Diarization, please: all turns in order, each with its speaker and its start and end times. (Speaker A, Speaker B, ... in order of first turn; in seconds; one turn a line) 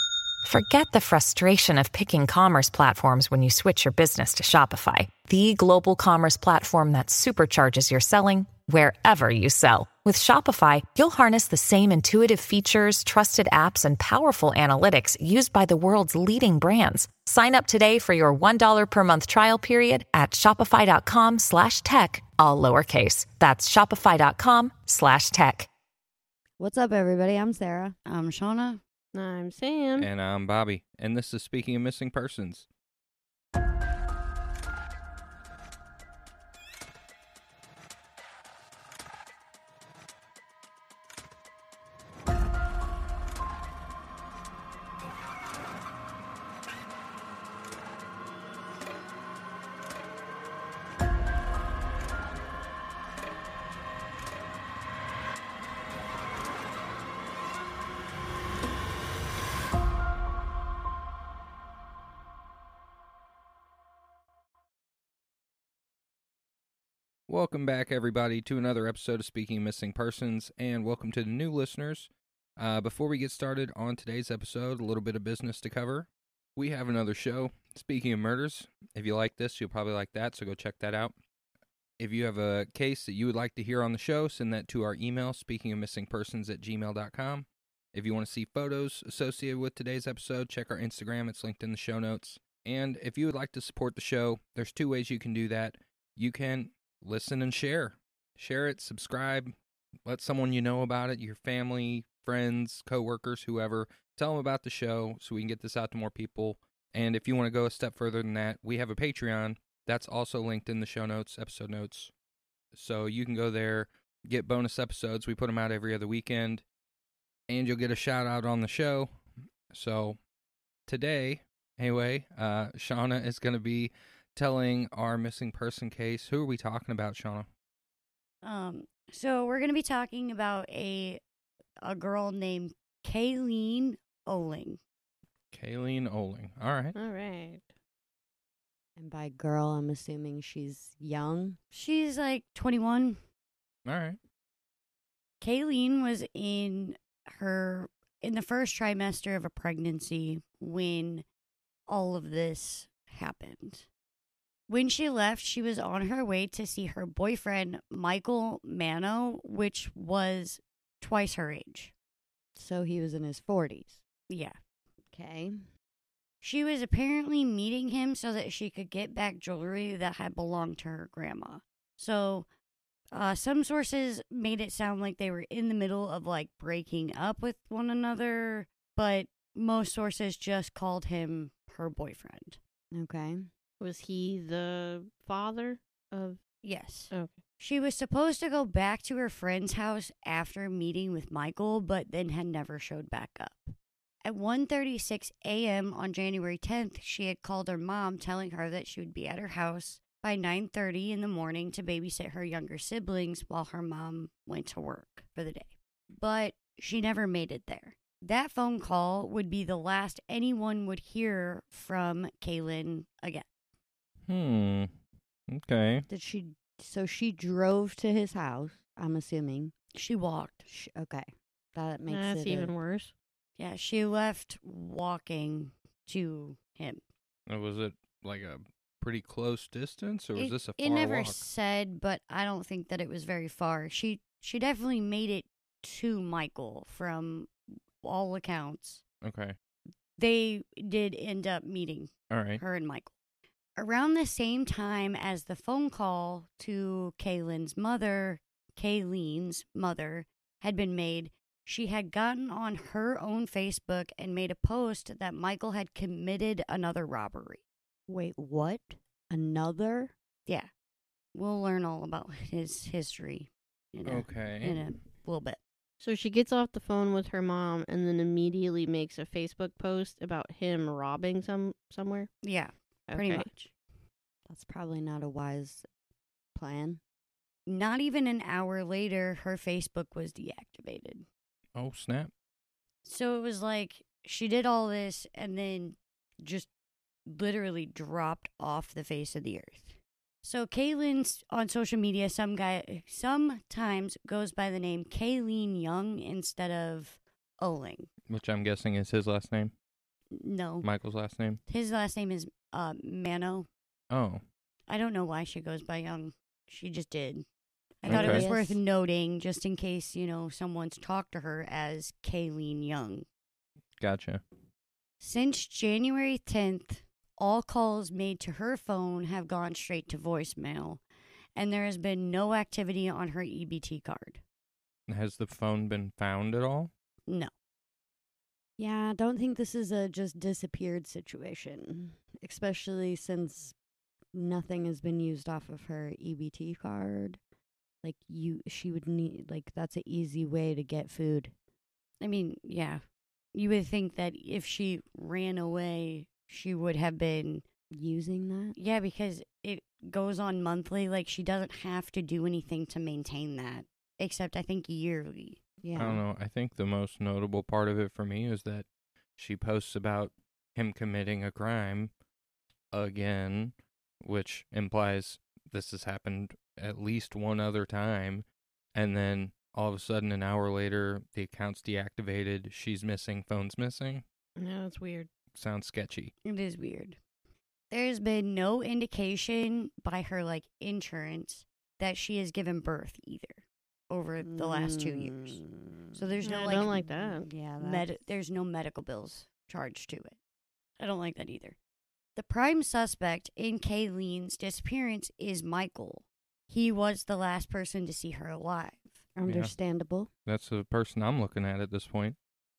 Speaker A: 0.4-25.7
Speaker B: 26.6-28.0
Speaker C: 28.1-28.8
Speaker D: 29.1-30.1
Speaker E: 30.0-32.7
Speaker E: 67.3-81.2
Speaker E: 82.0-99.5
Speaker E: 100.1-112.1
Speaker E: 112.7-116.6
Speaker E: 117.5-120.2
Speaker E: 120.9-127.5
Speaker C: 128.4-131.2
Speaker C: 131.8-134.8
Speaker E: 135.5-137.0
Speaker D: 136.9-137.7
Speaker B: 139.0-141.6
Speaker C: 141.7-143.2
Speaker E: 143.9-144.2
Speaker C: 145.4-151.2
Speaker C: 151.9-153.9
Speaker C: 154.7-161.9
Speaker B: 162.6-164.0
Speaker C: 164.3-164.6
Speaker B: 165.1-165.7
Speaker C: 166.4-172.5
Speaker C: 173.1-182.6
Speaker B: 182.9-183.5
Speaker D: 183.8-186.4
Speaker C: 186.6-213.5
Speaker D: 187.1-187.4
Speaker E: 214.3-214.9
Speaker E: 215.5-216.1
Speaker B: 216.1-219.7
Speaker C: 219.9-220.7
Speaker B: 220.7-222.7
Speaker D: 222.1-223.1
Speaker C: 223.6-227.0
Speaker E: 227.5-231.4
Speaker C: 230.3-239.0
Speaker E: 239.2-239.6
Speaker C: 240.2-243.1
Speaker E: 242.3-242.6
Speaker C: 243.8-257.6
Speaker B: 258.1-260.1
Speaker C: 261.4-265.6
Speaker E: 264.1-264.8
Speaker D: 266.0-272.3
Speaker C: 272.4-273.7
Speaker D: 273.1-273.5
Speaker B: 274.5-275.9
Speaker B: 276.6-277.0
Speaker C: 277.7-281.3
Speaker E: 281.8-282.3
Speaker C: 283.1-286.7
Speaker C: 287.3-298.1
Speaker E: 298.3-299.7
Speaker C: 300.3-300.9
Speaker E: 300.8-301.6
Speaker C: 301.7-303.7
Speaker E: 304.1-304.4
Speaker C: 304.9-307.5
Speaker C: 308.0-313.3
Speaker B: 308.0-308.8
Speaker E: 308.1-308.5
Speaker E: 314.0-314.4
Speaker C: 315.2-321.0
Speaker C: 321.6-324.4
Speaker E: 325.1-326.9
Speaker B: 328.8-333.8
Speaker B: 334.3-337.4
Speaker B: 338.0-341.5
Speaker C: 342.2-343.0
Speaker C: 343.6-347.6
Speaker B: 347.9-348.8
Speaker C: 348.8-355.6
Speaker B: 355.8-356.2
Speaker E: 356.0-358.9
Speaker E: 359.4-362.1
Speaker E: 362.9-368.4
Speaker E: 368.9-374.2
Speaker D: 374.6-375.3
Speaker E: 375.5-376.3
Speaker C: 376.4-377.2
Speaker C: 377.9-385.6
Speaker B: 384.4-388.1
Speaker C: 386.1-387.0
Speaker D: 386.4-387.5
Speaker C: 387.8-390.4
Speaker C: 391.0-391.8
Speaker C: 392.4-399.2
Speaker B: 399.4-400.3
Speaker E: 399.5-399.7
Speaker E: 400.5-402.4